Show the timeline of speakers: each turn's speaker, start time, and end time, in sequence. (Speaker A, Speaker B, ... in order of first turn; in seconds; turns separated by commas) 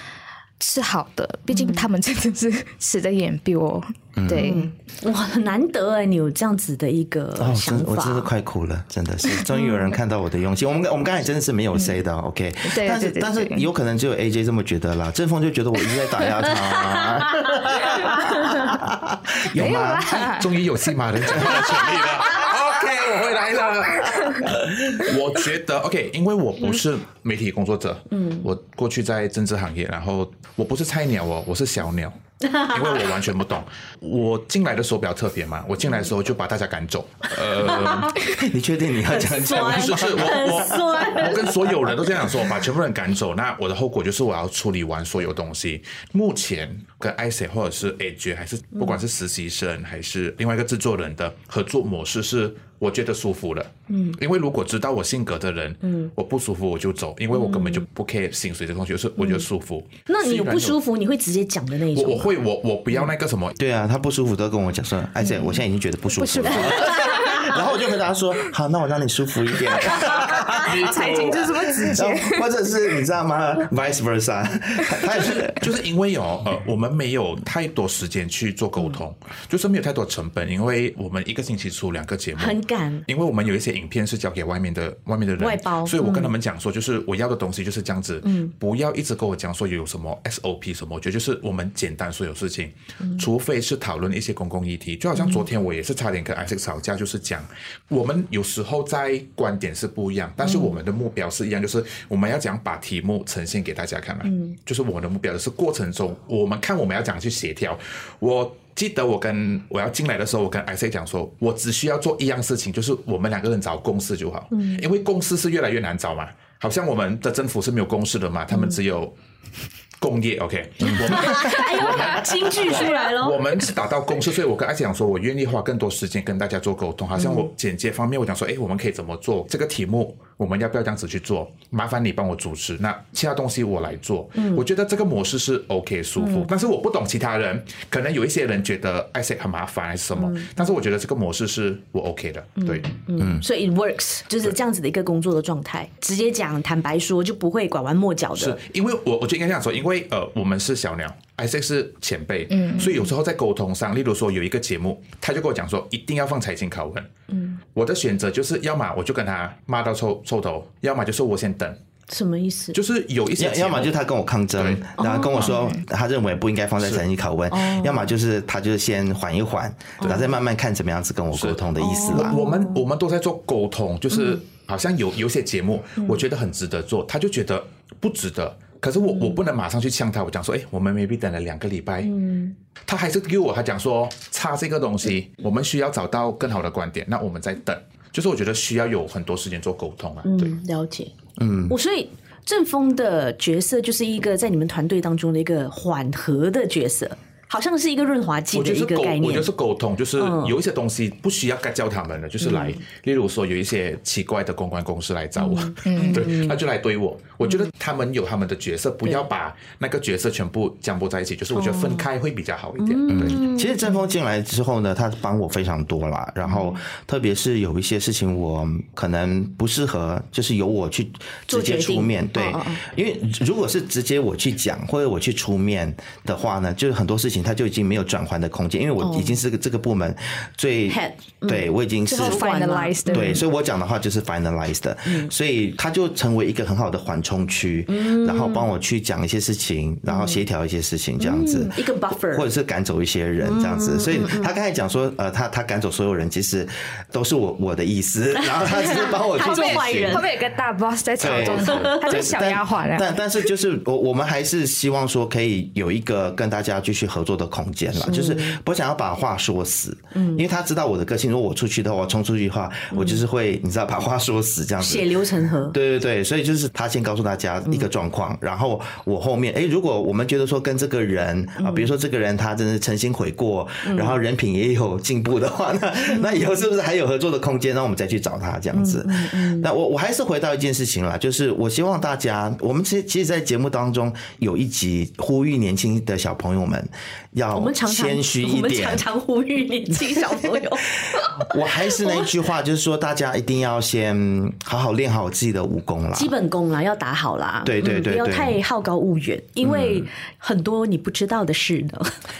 Speaker A: 0.6-4.7, Speaker B: 1.5-1.9, Speaker C: 4.2-4.6, Speaker B: 4.3-8.3, Speaker C: 7.4-20.2, Speaker B: 9.5-9.9, Speaker A: 12.7-13.7, Speaker B: 16.5-18.6, Speaker A: 19.5-20.7, Speaker D: 20.1-38.3, Speaker B: 28.1-28.5, Speaker B: 32.4-33.0, Speaker B: 37.6-38.2, Speaker C: 38.2-40.9, Speaker B: 39.1-41.7, Speaker D: 39.4-60.8, Speaker B: 53.9-54.2, Speaker B: 55.8-56.1, Speaker B: 57.3-57.9, Speaker B: 59.2-59.5, Speaker B: 60.1-62.3, Speaker D: 62.0-63.6, Speaker C: 63.6-70.9, Speaker A: 66.1-67.6, Speaker B: 66.7-67.2, Speaker A: 69.7-72.5, Speaker D: 69.9-71.9, Speaker C: 71.8-75.6, Speaker D: 75.1-119.1, Speaker B: 82.4-83.1, Speaker B: 85.4-86.3, Speaker B: 88.2-88.5, Speaker B: 95.2-95.5, Speaker B: 100.4-100.8, Speaker B: 104.2-104.5, Speaker B: 114.5-114.8, Speaker D: 120.0-142.9, Speaker B: 120.8-123.5, Speaker B: 127.2-127.5, Speaker B: 134.3-134.7, Speaker B: 136.2-136.5, Speaker B: 140.2-140.6, Speaker B: 142.6-148.6, Speaker C: 143.2-143.4, Speaker D: 148.4-157.1, Speaker A: 152.5-152.9, Speaker B: 157.3-157.6, Speaker D: 157.7-161.8, Speaker B: 162.1-162.8, Speaker D: 162.7-163.9, Speaker C: 163.4-172.3, Speaker D: 164.6-164.9, Speaker B: 165.0-165.7, Speaker B: 167.5-168.1, Speaker B: 170.0-170.3, Speaker D: 171.3-182.1, Speaker B: 171.8-172.9, Speaker B: 174.1-174.4, Speaker B: 176.0-176.2, Speaker B: 182.0-182.6, Speaker D: 182.9-190.5, Speaker B: 190.2-191.1, Speaker C: 191.4-191.8, Speaker B: 191.7-199.5, Speaker D: 198.5-213.4, Speaker B: 200.2-200.6, Speaker B: 202.4-202.8, Speaker B: 205.4-206.6, Speaker A: 205.8-206.3, Speaker B: 207.4-207.7, Speaker B: 211.5-212.1, Speaker B: 212.8-214.0, Speaker C: 213.1-232.4, Speaker B: 216.4-216.8, Speaker B: 221.5-222.8, Speaker B: 229.0-229.4, Speaker B: 230.9-233.4, Speaker A: 232.1-233.4, Speaker C: 233.1-250.2, Speaker B: 237.9-238.7, Speaker B: 240.1-240.4, Speaker B: 241.2-242.5, Speaker B: 243.4-244.5, Speaker B: 248.4-250.3, Speaker A: 249.4-253.1, Speaker C: 251.2-289.1, Speaker B: 251.3-252.2, Speaker B: 258.0-258.6, Speaker B: 260.1-260.4, Speaker B: 262.9-263.2, Speaker B: 264.8-265.8, Speaker B: 271.6-271.9, Speaker B: 273.9-274.2, Speaker B: 276.1-276.4, Speaker B: 278.7-279.7, Speaker B: 287.6-292.3, Speaker C: 291.3-296.3, Speaker B: 296.1-302.2, Speaker C: 297.6-298.6, Speaker C: 299.6-300.1